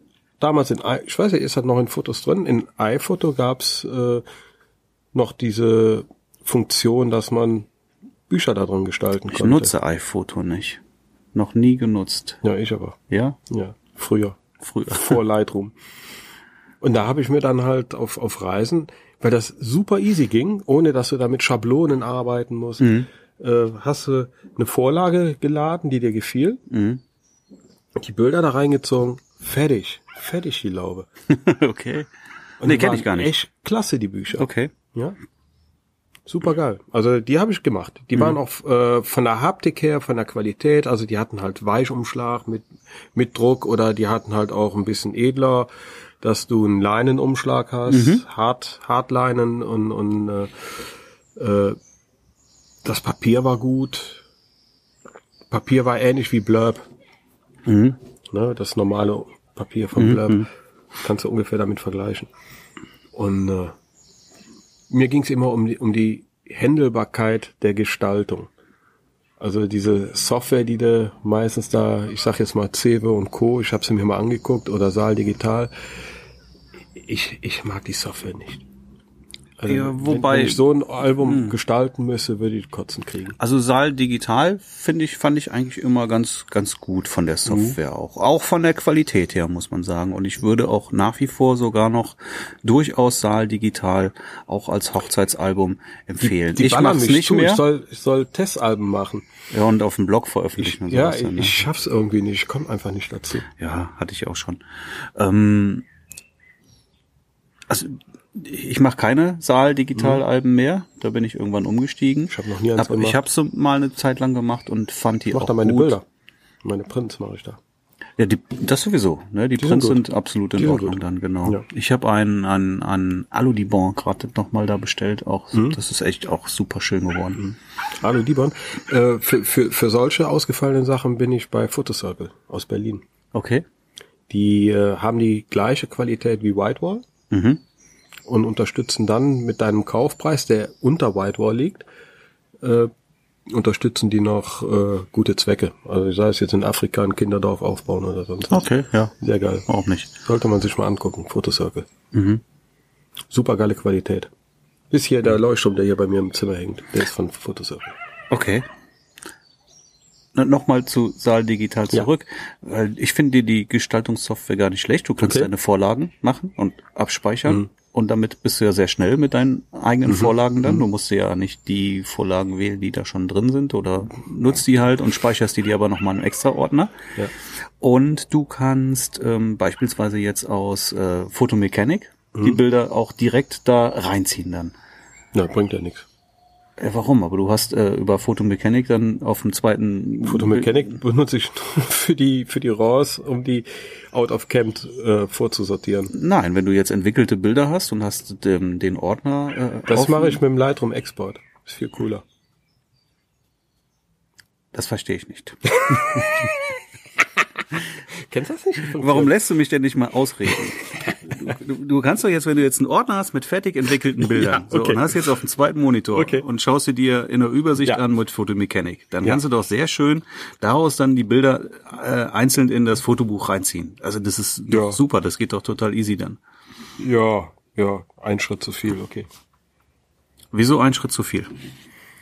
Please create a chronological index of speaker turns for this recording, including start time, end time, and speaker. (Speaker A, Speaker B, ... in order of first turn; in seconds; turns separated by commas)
Speaker A: 0.4-4.2, Speaker A: 5.1-7.7, Speaker A: 8.3-9.7, Speaker B: 9.3-10.8, Speaker B: 11.3-12.4, Speaker A: 12.4-13.0, Speaker B: 13.1-13.4, Speaker A: 13.5-15.7, Speaker B: 14.6-15.2, Speaker A: 16.8-26.6, Speaker B: 22.8-23.1, Speaker B: 26.7-27.0, Speaker A: 27.9-31.1, Speaker B: 31.3-32.1, Speaker A: 32.6-35.1, Speaker B: 32.6-33.3, Speaker B: 34.4-34.7, Speaker A: 36.2-45.7, Speaker A: 46.2-51.8, Speaker B: 47.9-48.2, Speaker A: 52.8-54.2, Speaker A: 55.5-56.8, Speaker B: 57.6-58.0, Speaker A: 58.3-60.5, Speaker B: 60.0-60.4, Speaker A: 61.0-62.3, Speaker A: 63.1-63.7, Speaker A: 64.9-68.5, Speaker A: 69.4-75.7, Speaker A: 77.0-78.6, Speaker A: 79.6-83.4, Speaker B: 79.7-80.6, Speaker B: 81.2-81.5, Speaker B: 83.4-97.6, Speaker A: 87.5-87.8, Speaker A: 96.2-99.3, Speaker B: 99.5-101.7, Speaker A: 100.6-103.5, Speaker B: 103.5-105.8, Speaker B: 107.7-116.0, Speaker A: 110.0-110.2, Speaker A: 112.3-113.2, Speaker A: 115.3-116.0, Speaker A: 116.6-117.6, Speaker B: 118.2-127.5, Speaker A: 119.6-120.0, Speaker A: 120.5-121.6, Speaker A: 127.4-133.0, Speaker B: 133.3-133.6, Speaker A: 134.3-137.0, Speaker B: 137.3-137.6, Speaker A: 138.3-141.8, Speaker A: 142.6-142.9, Speaker A: 143.5-148.7, Speaker B: 148.5-149.1, Speaker A: 149.2-149.7, Speaker B: 149.7-150.1, Speaker A: 150.2-151.8, Speaker B: 152.1-152.4, Speaker A: 153.3-154.3, Speaker A: 154.9-158.0, Speaker B: 158.3-158.7, Speaker B: 160.3-177.0, Speaker A: 165.2-165.5, Speaker A: 170.1-170.8, Speaker B: 177.8-184.7, Speaker A: 185.3-186.1, Speaker B: 186.8-190.9, Speaker A: 190.2-196.1, Speaker B: 196.1-200.4, Speaker A: 199.9-202.2, Speaker B: 204.7-206.4, Speaker A: 208.2-209.3, Speaker B: 208.9-226.4, Speaker A: 214.2-215.3, Speaker A: 216.1-216.4, Speaker A: 224.7-225.0, Speaker A: 227.0-229.3, Speaker B: 230.5-231.5